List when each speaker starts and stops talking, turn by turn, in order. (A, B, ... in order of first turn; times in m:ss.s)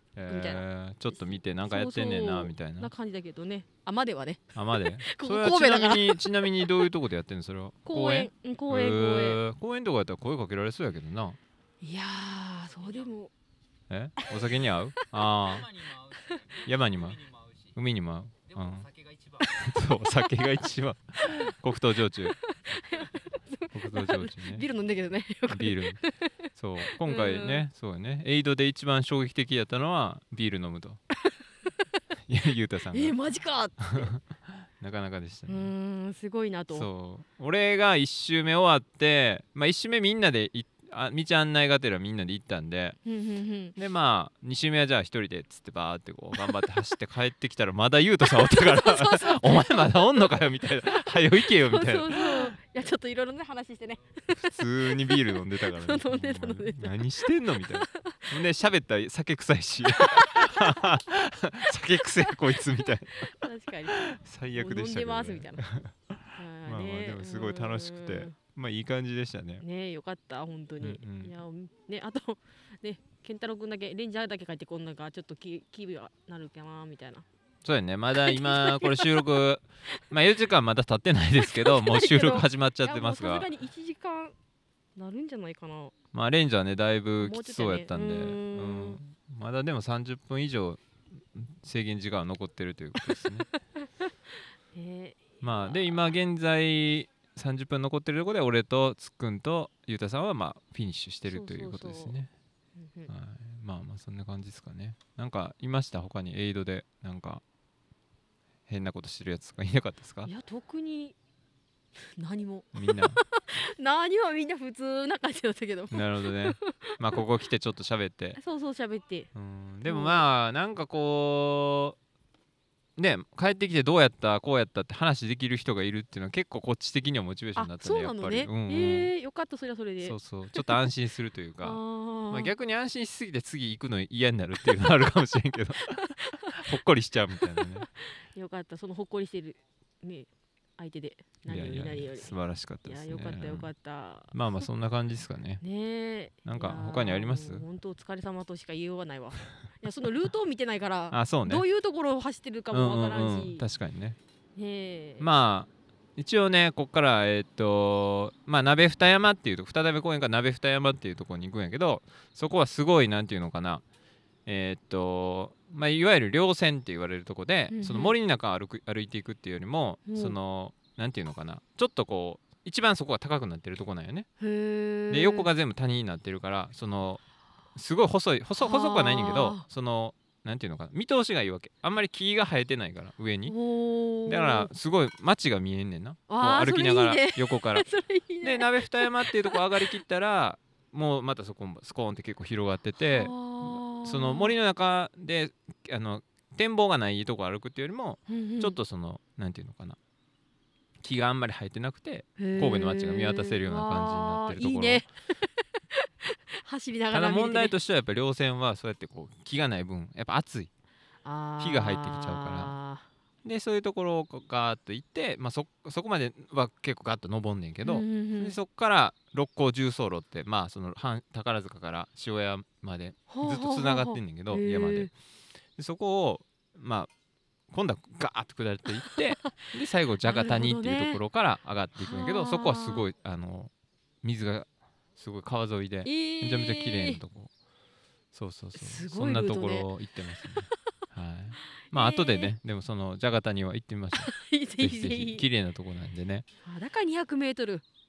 0:00.2-0:02.9 A
0:00.3-0:06.7 B
0:04.5-0:11.4 A
0:07.9-0:09.4 B
0:11.8-0:13.3 B
0:13.9-0:15.7 A
0:15.1-0:15.4 B
0:15.4-0:16.4 C
0:16.2-0:16.6 B
0:16.6-0:17.2 A
0:16.9-0:17.7 C
0:17.7-0:18.9 A
0:18.5-0:19.5 C
0:19.5-0:22.4 A
0:22.1-0:26.3 B
0:23.7-0:24.6 A
0:25.5-0:26.0 A
0:26.5-0:31.0 A
0:26.9-0:27.6 B
0:32.3-0:33.1 A
0:32.9-0:34.1 B
0:33.9-0:34.2 A
0:34.8-0:35.7 A
0:35.5-0:36.9 B
0:36.7-0:43.0 A
0:43.0-0:43.8 B
0:43.8-0:52.6 A
0:48.2-0:50.4 B
0:51.0-0:58.3 B
0:54.3-1:03.3 A
1:00.0-1:00.7 B
1:03.2-1:05.6 B
1:03.9-1:09.6 A
1:06.4-1:08.3 B
1:09.6-1:17.2 B
1:10.8-1:11.4 A
1:17.6-1:23.5 A
1:18.2-1:19.4 B
1:21.4-1:24.3 B
1:25.0-1:25.9 B
1:26.1-1:30.8 A
1:27.2-1:29.0 B
1:31.3-1:33.4 A
1:33.1-1:33.9 B
1:34.7-1:35.8 B
1:35.4-1:42.3 A
1:41.3-1:42.2 B
1:42.8-1:43.1 B
1:43.1-1:47.4 A
1:48.7-1:50.3 A
1:50.2-1:51.2 B
1:52.0-1:57.2 B
1:52.7-1:53.2 A
1:55.9-1:58.4 A
1:58.4-1:59.3 B
1:59.3-2:02.0 A
1:59.9-2:00.2 B
2:03.0-2:09.1 A
2:07.6-2:10.7 B
2:10.0-2:17.9 A
2:11.6-2:12.5 B
2:16.2-2:16.7 B
2:17.5-2:24.3 B
2:21.5-2:23.7 A
2:24.3-2:25.6 A
2:25.6-2:33.6 B
2:26.4-2:27.6 A
2:31.1-2:31.6 A
2:32.7-2:34.2 A
2:34.6-2:35.2 B
2:35.2-2:43.8 A
2:44.4-2:54.3 A
2:47.7-2:48.1 B
2:50.1-2:50.4 B
2:54.4-2:55.5 B
2:55.1-2:57.2 A
2:57.8-3:03.5 A
2:58.6-2:59.6 B
3:03.5-3:04.7 B
3:04.2-3:07.8 A
3:06.3-3:09.6 B
3:08.4-3:20.0 A
3:13.0-3:14.6 B
3:18.3-3:18.8 B
3:21.0-3:25.0 A
3:22.4-3:27.7 B
3:27.1-3:30.7 A
3:31.2-3:33.1 B
3:31.6-3:32.7 A
3:33.4-3:45.1 A
3:37.8-3:38.6 B
3:43.3-3:45.1 B
3:45.8-3:47.1 A
3:47.7-3:53.7 A
3:50.2-3:51.2 B
3:52.0-3:53.0 B
3:54.2-3:57.5 A
3:56.0-3:57.2 B
3:58.3-4:06.4 A
3:58.7-3:59.9 B
4:01.9-4:02.5 B
4:04.2-4:05.4 B
4:06.6-4:07.8 B